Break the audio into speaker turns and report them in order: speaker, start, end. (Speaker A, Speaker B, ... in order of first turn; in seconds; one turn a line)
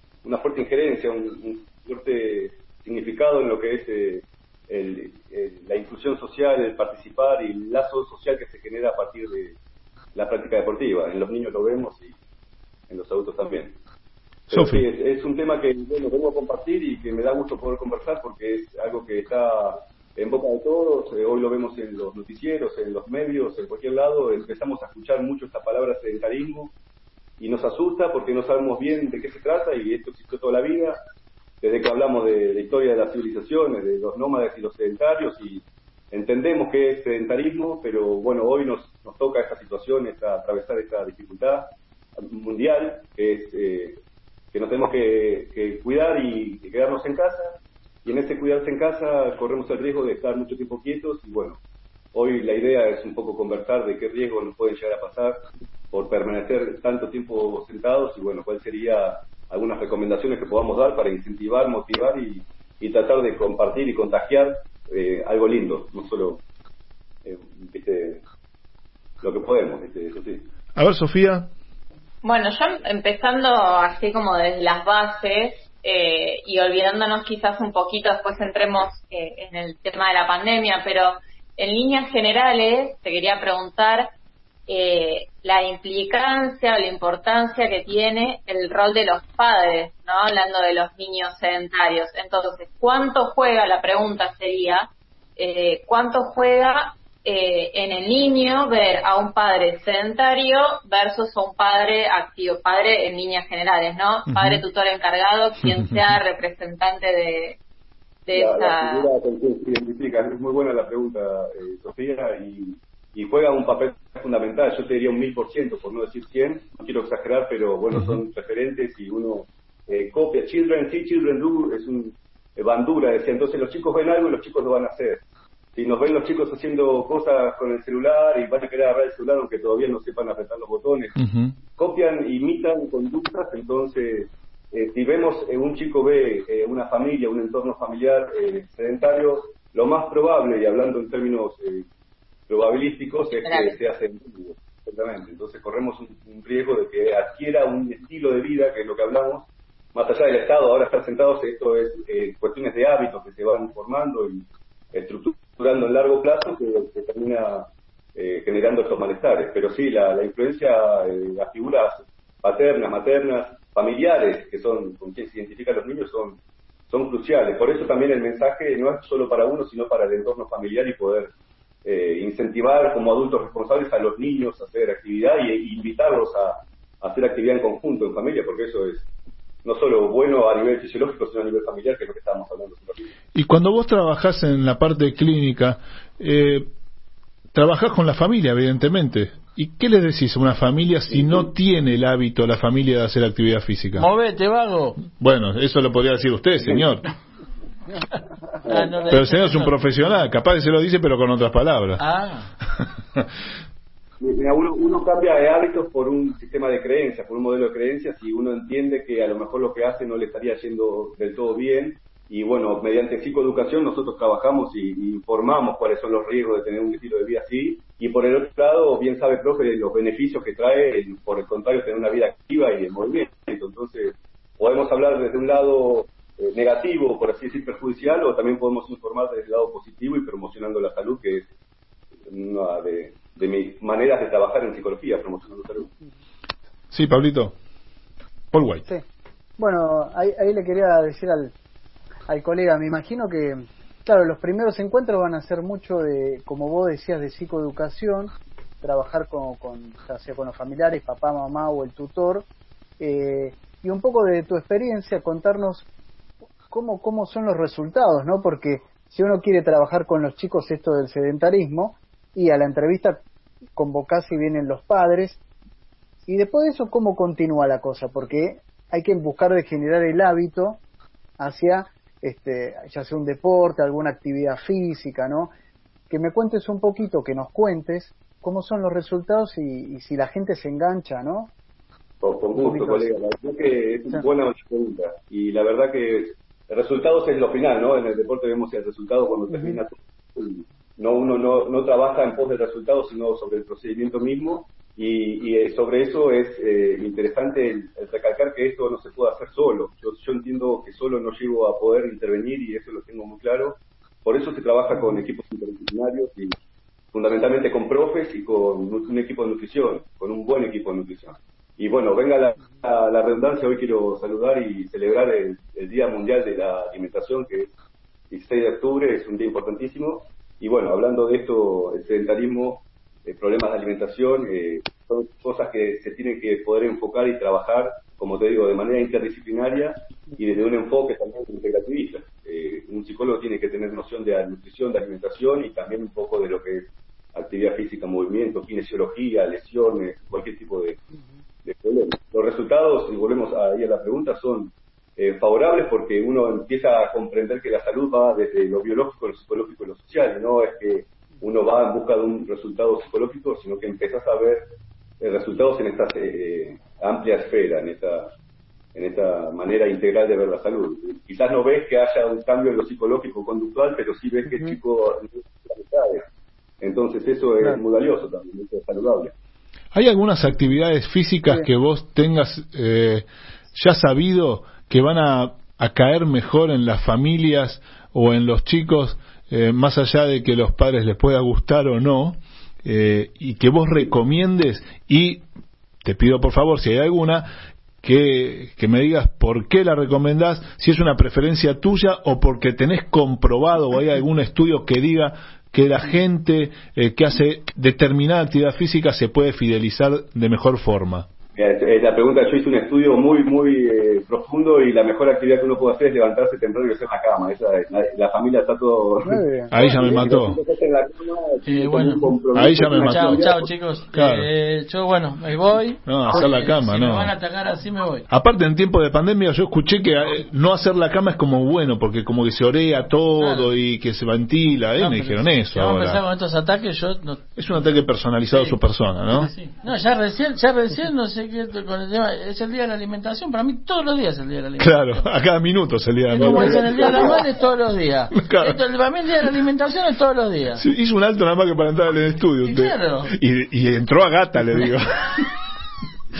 Speaker A: 0.2-9.6
Speaker A: 10.2-12.2
Speaker A: 12.9-13.8
Speaker A: 14.5-26.7
Speaker B: 14.5-14.8
Speaker A: 27.4-31.0
Speaker A: 31.6-44.0
Speaker A: 44.5-51.6
Speaker A: 52.1-66.4
Speaker A: 67.2-68.2
Speaker A: 69.2-70.5
Speaker B: 70.8-71.5
Speaker C: 72.2-84.1
Speaker C: 84.7-107.6
Speaker B: 104.3-104.6
Speaker C: 108.3-109.1
Speaker A: 108.3-125.2
Speaker B: 117.9-118.2
Speaker A: 125.8-131.1
Speaker B: 131.2-131.6
Speaker A: 131.8-141.9
Speaker A: 142.5-171.3
Speaker C: 143.4-143.8
Speaker A: 171.8-179.1
Speaker A: 179.6-183.1
Speaker B: 183.3-186.7
Speaker B: 187.5-194.1
Speaker A: 191.1-191.5
Speaker D: 194.0-195.1
Speaker B: 195.2-197.1
Speaker D: 198.6-200.3
Speaker B: 199.1-202.0
Speaker D: 202.0-202.5
Speaker B: 202.8-203.2
Speaker A: 204.2-231.5
Speaker A: 232.3-235.9
Speaker B: 236.9-237.6
Speaker B: 238.5-238.9
Speaker E: 239.6-241.5
Speaker E: 242.3-252.4
Speaker E: 253.0-255.9
Speaker E: 256.7-263.2
Speaker E: 263.8-265.4
Speaker E: 266.3-270.8
Speaker E: 271.4-275.5
Speaker E: 276.1-281.5
Speaker A: 282.2-306.6
Speaker E: 282.5-283.1
Speaker E: 289.5-289.8
Speaker A: 307.1-317.7
Speaker A: 318.3-341.0
Speaker A: 341.6-354.6
Speaker A: 355.2-358.3
Speaker A: 358.9-366.3
Speaker E: 364.5-364.8
Speaker A: 366.8-369.3
Speaker B: 369.9-385.4
Speaker B: 386.0-401.3
Speaker A: 401.6-413.7
Speaker E: 409.2-409.7
Speaker B: 409.7-410.6
Speaker D: 411.6-412.3
Speaker B: 412.5-413.5
Speaker D: 412.8-418.3
Speaker B: 414.1-414.5
Speaker B: 416.1-417.3
Speaker B: 418.3-426.2
Speaker D: 423.4-423.7
Speaker D: 425.0-427.5
Speaker B: 427.6-429.5
Speaker D: 428.5-428.8
Speaker D: 429.3-435.2
Speaker B: 434.8-437.4
Speaker D: 436.3-440.8
Speaker A: 436.4-437.4
Speaker B: 438.4-438.8
Speaker B: 440.8-445.4
Speaker D: 442.6-443.3